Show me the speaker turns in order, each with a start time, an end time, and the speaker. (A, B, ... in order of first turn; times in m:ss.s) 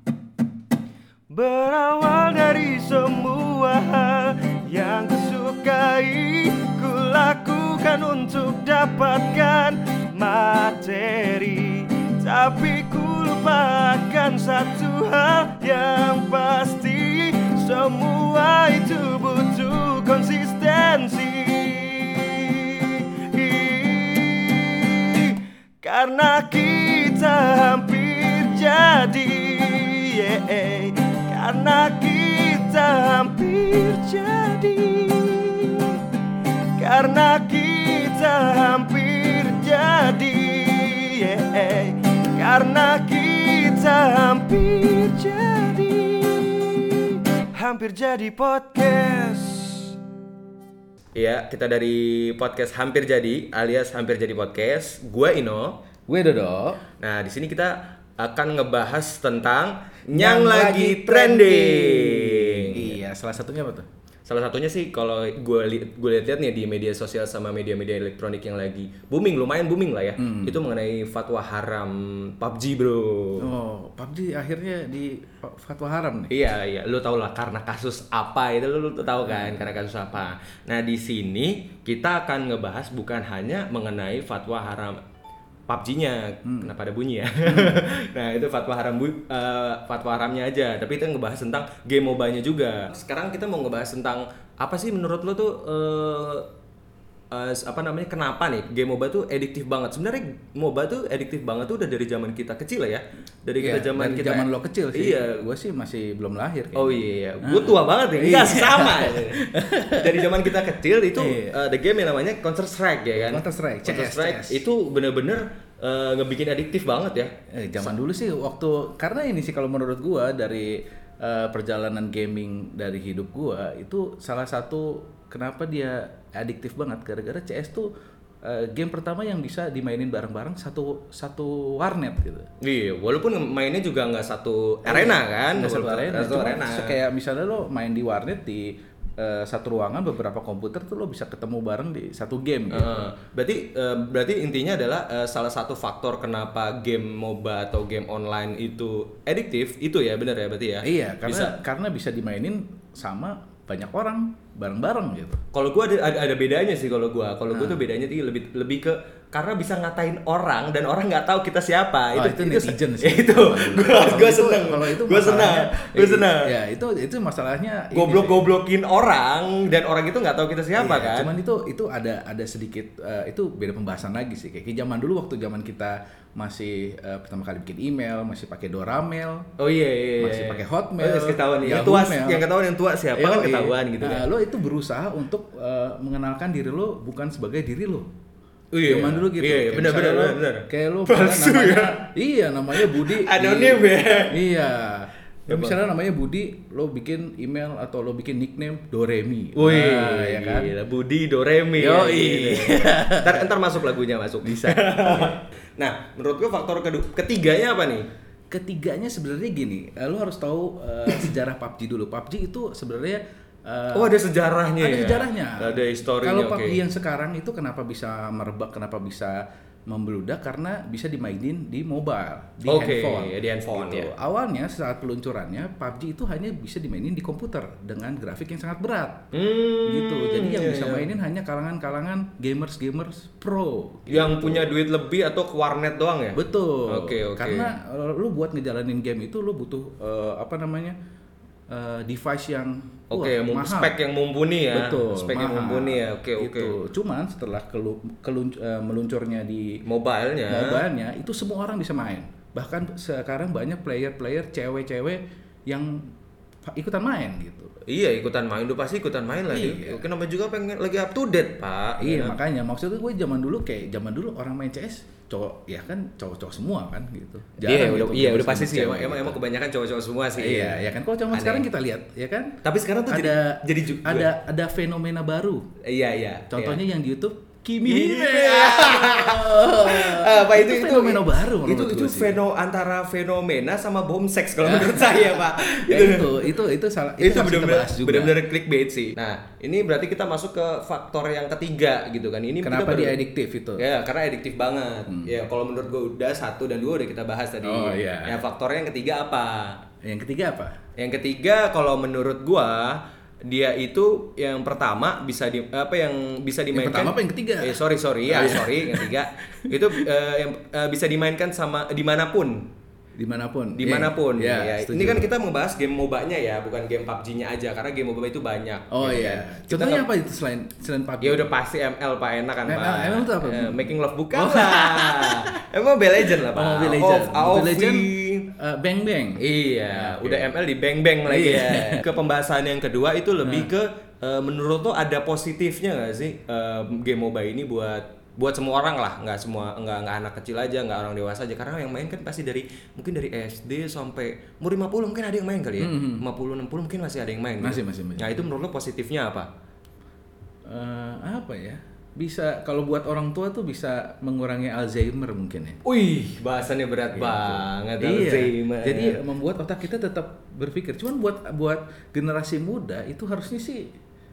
0:01.3-0:36.0 A
0:36.8-0:49.9 A
0:51.2-0:55.8 A
0:56.1-0:56.8 B
0:57.0-1:03.0 A
1:00.1-1:03.9 B
1:04.3-1:13.5 A
1:10.2-1:10.6 B
1:13.4-1:16.3 B
1:16.3-1:25.0 A
1:19.3-1:19.7 B
1:25.7-1:36.5 A
1:26.4-1:26.7 B
1:27.5-1:27.8 B
1:37.3-1:45.4 A
1:43.6-1:50.6 B
1:46.8-1:57.3 A
1:51.2-1:51.6 B
1:53.2-1:54.6 B
1:57.5-2:07.9 B
2:08.4-2:12.5 B
2:12.6-2:17.0 A
2:14.9-2:23.1 B
2:22.7-2:31.6 A
2:30.8-2:35.4 B
2:35.5-2:46.5 A
2:37.5-2:37.8 B
2:42.2-2:48.5 B
2:47.9-2:51.3 A
2:50.8-2:59.5 B
2:59.6-3:04.2 A
3:00.2-3:02.5 B
3:03.1-3:08.1 B
3:08.7-3:12.0 A
3:08.8-3:20.7 B
3:12.7-3:14.4 A
3:15.5-3:15.8 A
3:19.6-3:28.0 A
3:21.8-3:23.5 B
3:24.4-3:25.4 B
3:28.5-3:34.2 B
3:33.9-3:36.8 A
3:34.8-3:49.3 B
3:42.6-3:44.1 A
3:49.3-3:51.1 A
3:49.8-3:54.8 B
3:54.1-3:57.7 A
3:56.4-4:01.0 B
4:01.7-4:04.0 B
4:03.1-4:06.8 A
4:04.7-4:09.8 B
4:09.8-4:10.8 A
4:10.5-4:16.1 B
4:16.6-4:17.7 B
4:17.9-4:22.4 A
4:19.5-4:20.0 B
4:22.0-4:29.4 B
4:27.6-4:31.6 A
4:30.4-4:35.7 B
4:32.6-4:34.3 A
4:35.8-4:36.8 A
4:36.5-4:42.4 B
4:37.9-4:46.5 A
4:44.6-4:48.4 B
4:47.2-4:53.2 A
4:52.6-4:53.8 B
4:53.8-4:59.8 A
4:57.6-4:58.4 B
5:00.0-5:00.8 B
5:01.0-5:12.7 A
5:06.7-5:10.0 B
5:13.2-5:15.3 B
5:13.8-5:20.1 A
5:18.9-5:21.6 B
5:21.2-5:28.5 A
5:22.6-5:25.6 B
5:26.2-5:30.5 B
5:29.4-5:49.5 A
5:31.3-5:32.1 B
5:33.4-5:33.7 B
5:45.8-5:46.2 B
5:47.6-5:48.5 B
5:50.7-5:55.8 B
5:55.8-5:59.2 A
5:57.1-6:03.9 B